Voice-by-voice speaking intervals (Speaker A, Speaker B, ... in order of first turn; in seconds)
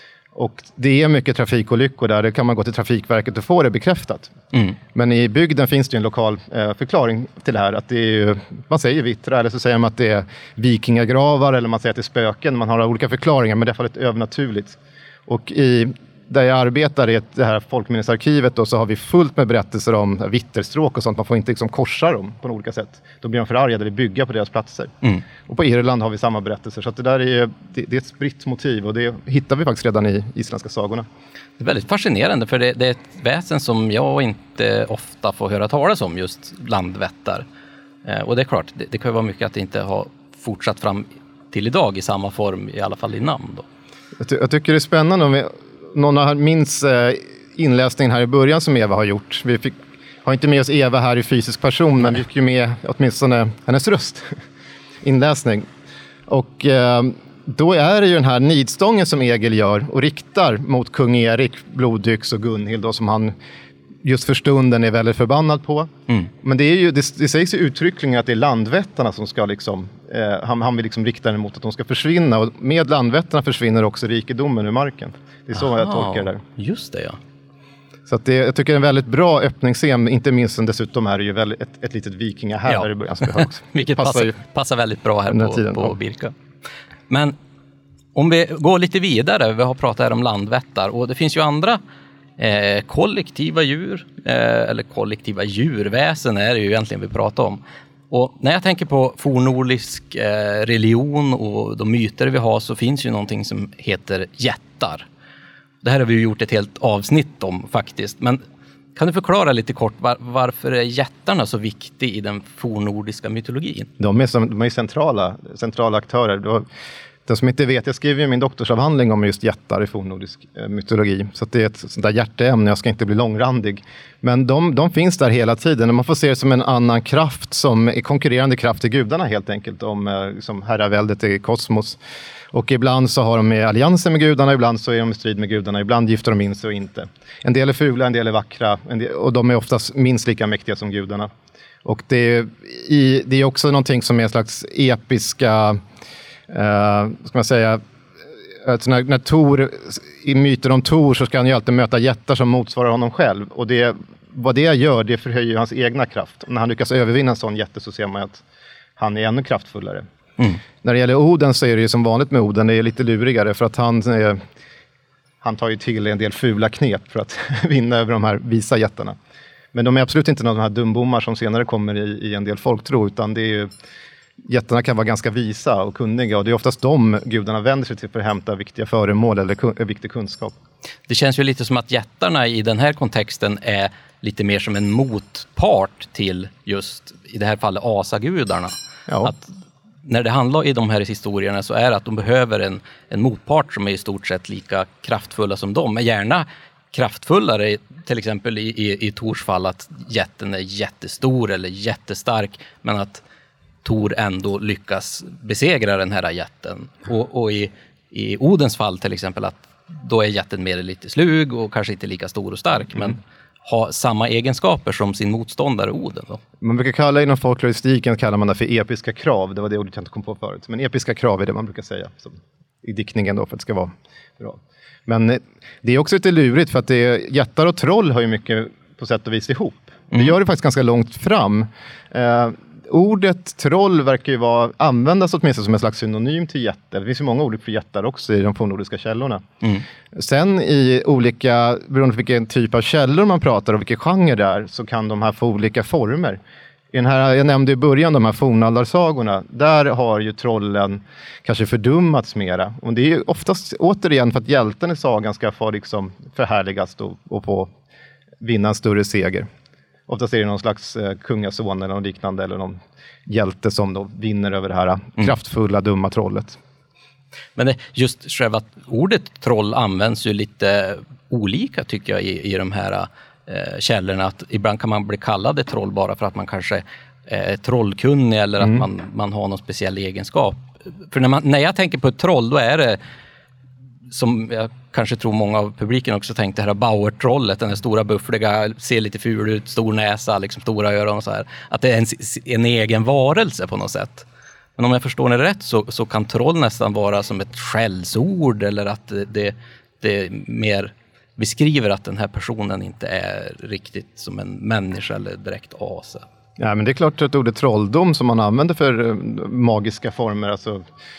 Speaker A: 0.3-4.4, 4.9-24.9, 25.5-31.1, 44.2-54.4, 55.0-55.7, 56.3-63.3, 64.0-76.4, 78.1-84.3, 85.3-86.0, 114.0-116.7, 117.3-132.0, 132.5-141.3, 141.8-145.8, 146.5-147.8, 148.6-158.4, 159.0-160.1, 160.8-164.4, 165.4-169.2, 169.7-173.7, 174.5-180.6, 189.1-189.3, 216.6-239.4, 240.2-246.4, 246.9-257.7, 258.4-259.5, 260.1-266.6, 306.6-310.8
Speaker B: 4.5-4.8, 31.6-37.5, 38.0-43.6, 75.8-77.2, 82.7-86.3, 87.1-87.3, 88.2-91.8, 92.4-105.1, 105.8-108.4, 109.0-113.9, 181.1-189.4, 190.1-203.2, 203.8-216.4, 267.6-283.0, 284.1-294.3, 294.8-306.2